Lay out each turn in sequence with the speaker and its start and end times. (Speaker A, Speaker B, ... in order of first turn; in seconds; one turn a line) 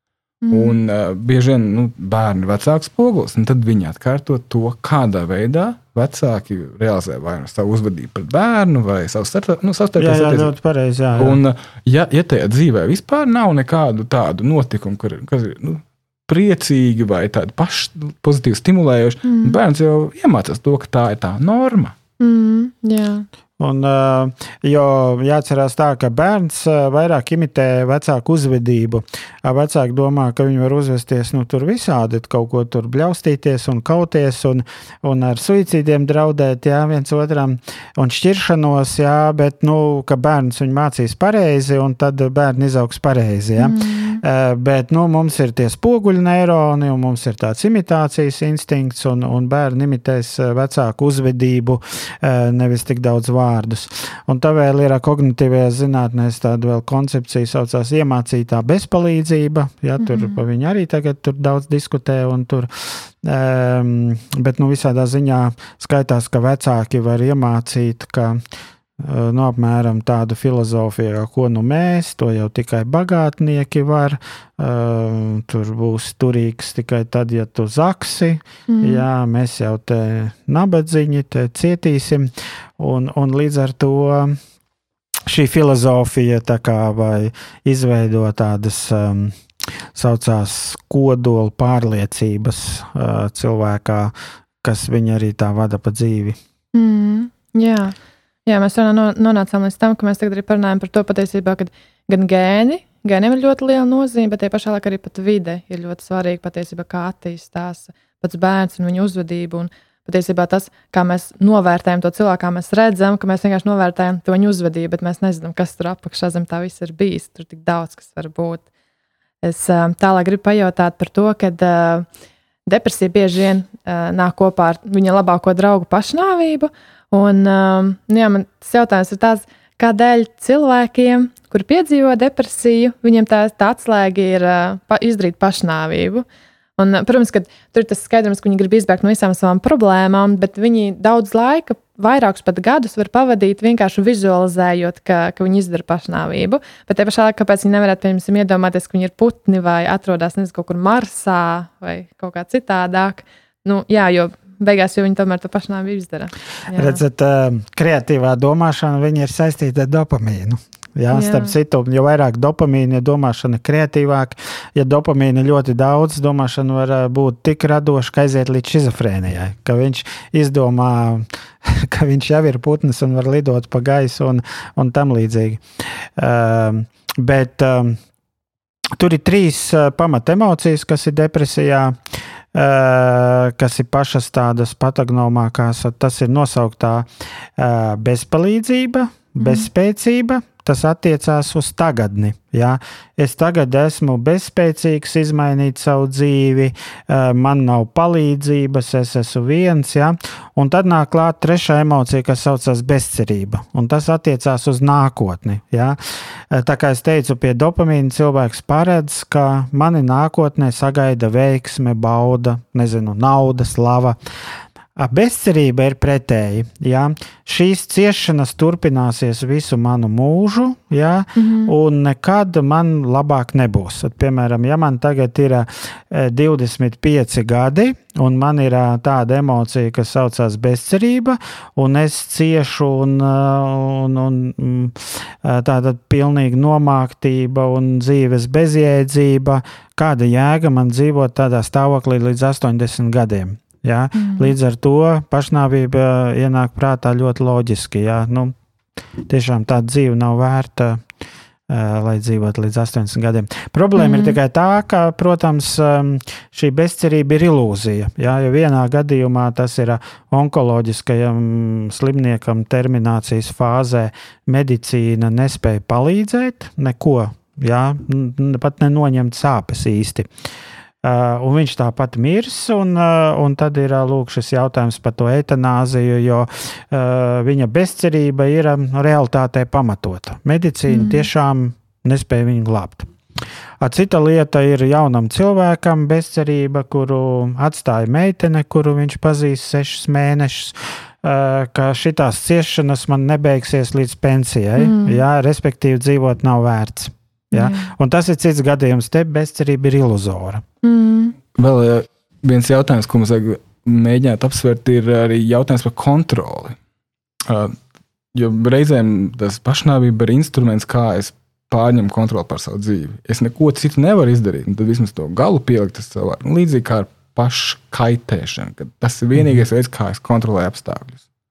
Speaker A: 0.4-0.8
Speaker B: 0.5-10.5
Speaker C: 10.0-11.4
Speaker B: 11.2-21.9
Speaker A: 19.2-19.6
Speaker A: 22.2-23.3
Speaker C: 23.6-68.4
Speaker A: 43.6-44.2
Speaker A: 60.0-60.4
Speaker C: 69.0-84.4
Speaker A: 78.7-79.0
Speaker C: 85.3-89.4
Speaker C: 89.9-96.4
Speaker A: 96.7-118.6
Speaker A: 119.4-122.1
Speaker A: 122.7-136.2
Speaker A: 136.8-157.0
Speaker C: 156.7-178.0
Speaker A: 161.1-161.5
Speaker C: 179.0-206.0
Speaker A: 189.4-189.7
Speaker C: 206.5-214.2
Speaker C: 215.0-248.6
Speaker A: 221.4-221.7
Speaker A: 244.2-244.5
Speaker C: 249.3-251.0
Speaker C: 251.7-270.3
Speaker A: 254.0-254.4
Speaker C: 271.0-283.1
Speaker A: 280.9-281.3
Speaker C: 283.8-300.6
Speaker A: 294.8-295.2
Speaker A: 297.5-297.9
Speaker A: 300.8-301.4
Speaker B: 301.6-306.8
Speaker B: 307.5-307.8
Speaker B: 308.3-321.2